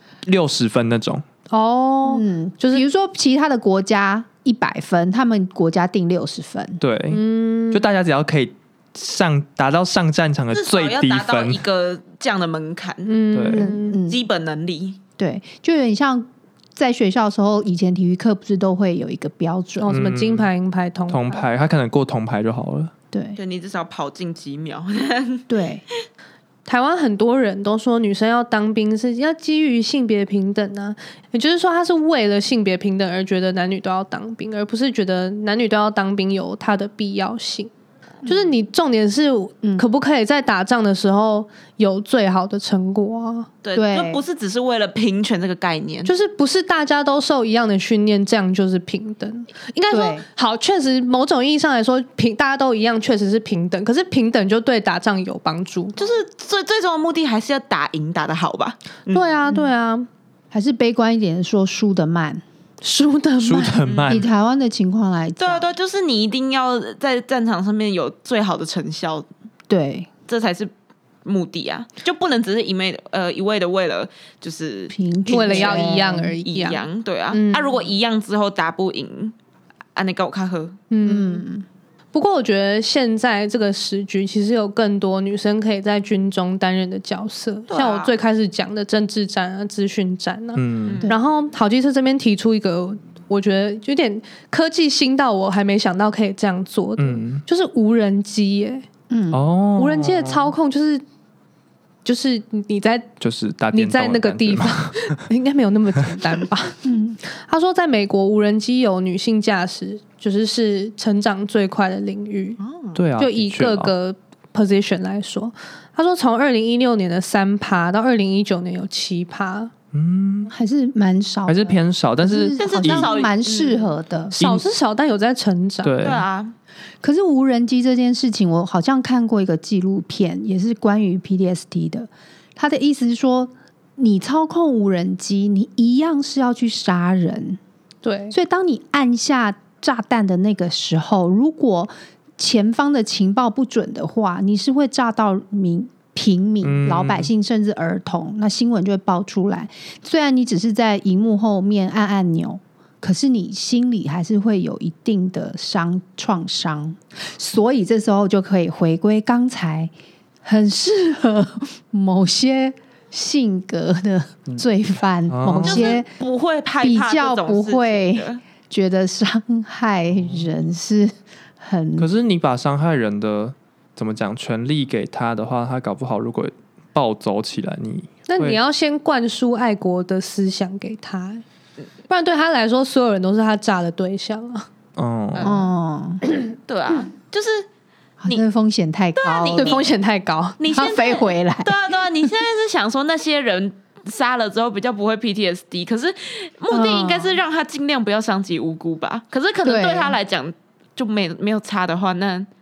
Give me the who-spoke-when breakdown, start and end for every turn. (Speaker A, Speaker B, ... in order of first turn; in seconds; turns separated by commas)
Speaker A: 0.2-1.2, Speaker B: 1.5-2.8, Speaker C: 2.0-6.8, Speaker A: 6.8-11.6, Speaker B: 7.1-7.8, Speaker D: 10.5-13.2, Speaker B: 13.1-14.0, Speaker A: 13.3-13.7, Speaker C: 13.5-14.2, Speaker D: 14.0-15.0, Speaker C: 15.2-20.0, Speaker B: 19.8-21.5, Speaker A: 19.9-20.5, Speaker A: 21.1-22.9, Speaker C: 23.1-23.4, Speaker D: 23.4-25.4, Speaker C: 25.5-25.8, Speaker B: 26.6-37.7, Speaker B: 38.2-43.5, Speaker D: 43.6-46.1, Speaker C: 43.7-44.2, Speaker B: 46.0-56.0, Speaker C: 49.9-50.2, Speaker D: 56.0-59.3, Speaker B: 59.1-60.1, Speaker C: 60.5-62.4, Speaker B: 62.8-63.8, Speaker A: 63.4-64.3, Speaker D: 63.8-64.3, Speaker C: 64.1-65.7, Speaker D: 65.4-69.3, Speaker C: 69.7-70.1, Speaker D: 70.3-70.7, Speaker D: 71.2-79.3, Speaker C: 74.9-76.4, Speaker B: 75.3-77.8, Speaker D: 79.9-80.8, Speaker B: 80.9-81.4, Speaker C: 81.0-81.6, Speaker B: 82.1-98.8, Speaker D: 87.7-88.1, Speaker A: 90.5-91.1, Speaker A: 97.0-97.4, Speaker C: 99.1-99.4, Speaker A: 99.3-100.5, Speaker B: 99.8-101.0, Speaker B: 102.0-103.1, Speaker A: 103.2-105.1, Speaker B: 103.7-112.6, Speaker C: 106.8-107.2, Speaker D: 112.6-113.0, Speaker A: 112.9-113.9, Speaker B: 113.2-119.7, Speaker A: 119.9-120.5, Speaker C: 120.5-124.3, Speaker A: 121.5-123.1, Speaker D: 122.6-123.9, Speaker B: 124.3-125.9, Speaker A: 124.4-124.7, Speaker A: 125.8-126.2, Speaker D: 126.0-126.5, Speaker C: 127.0-137.6, Speaker B: 138.0-138.3, Speaker C: 138.3-159.9, Speaker A: 146.6-147.3, Speaker C: 160.4-166.1, Speaker A: 165.3-165.9, Speaker D: 165.6-168.4, Speaker C: 166.8-172.1, Speaker A: 170.2-170.5, Speaker A: 172.0-178.6, Speaker B: 178.3-181.4, Speaker B: 182.1-184.7, Speaker A: 185.0-185.6, Speaker D: 185.3-185.6, Speaker C: 185.4-186.2, Speaker D: 186.7-187.7, Speaker C: 188.2-189.8, Speaker D: 189.2-189.9, Speaker B: 189.6-190.6, Speaker D: 190.6-202.5, Speaker C: 190.7-191.8, Speaker C: 196.7-197.4, Speaker C: 199.6-200.2